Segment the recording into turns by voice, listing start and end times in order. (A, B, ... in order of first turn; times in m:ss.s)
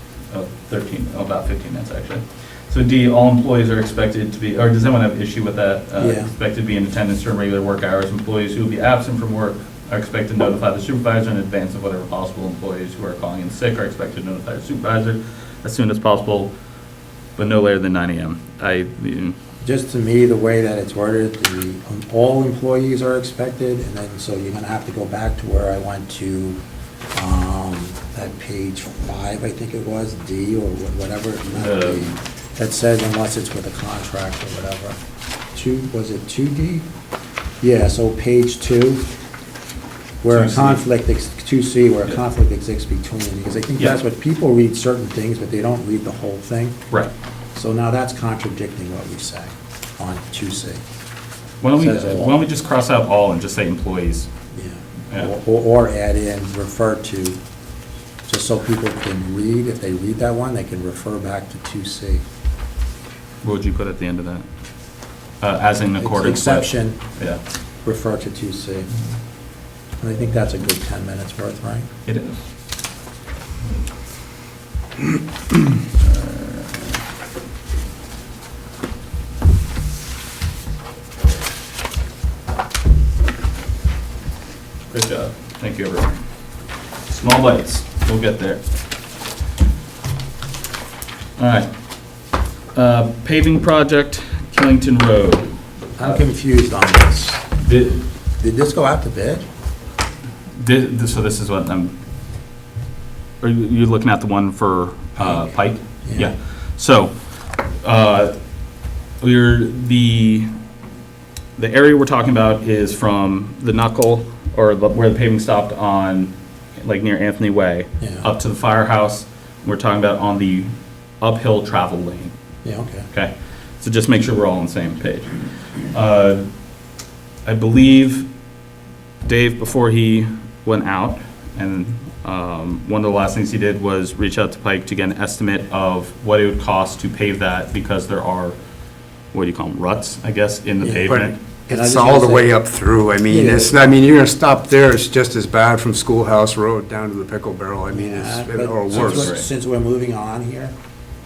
0:00.3-0:16.5 A
0:06.0-0:06.3 B
0:17.4-0:19.3 A
0:19.6-0:26.6 B
0:27.1-0:35.0 B
0:31.5-0:32.1 A
0:35.5-0:36.8 B
0:37.6-0:39.0 B
0:40.2-0:46.8 B
0:40.3-0:40.8 A
0:47.5-0:50.8 B
0:51.6-0:54.3 A
0:51.7-0:52.4 B
0:54.5-0:57.4 B
0:58.3-1:02.2 B
1:03.4-1:04.4 A
1:05.4-1:07.4 A
1:06.0-1:07.0 B
1:07.8-1:08.9 B
1:10.0-1:11.9 B
1:12.0-1:12.4 A
1:16.0-1:16.7 A
1:24.9-1:26.2 A
1:27.1-1:28.6 A
1:31.4-1:31.7 A
1:32.7-1:36.2 A
1:36.0-1:37.4 B
1:37.6-1:38.0 A
1:38.4-1:39.4 B
1:40.6-1:41.9 A
1:43.4-1:47.2 A
1:46.0-1:46.3 B
1:47.7-1:48.3 A
1:49.2-1:50.5 A
1:51.6-2:00.7 A
1:58.0-1:58.3 B
2:01.2-2:02.3 A
2:02.6-2:03.1 B
2:03.1-2:05.3 A
2:05.9-2:06.4 A
2:07.4-2:08.3 A
2:09.2-2:18.6 A
2:19.3-2:21.3 A
2:20.8-2:22.6 B
2:21.1-2:29.3 C
2:23.3-2:23.9 B
2:27.9-2:30.7 B
2:28.9-2:29.4 A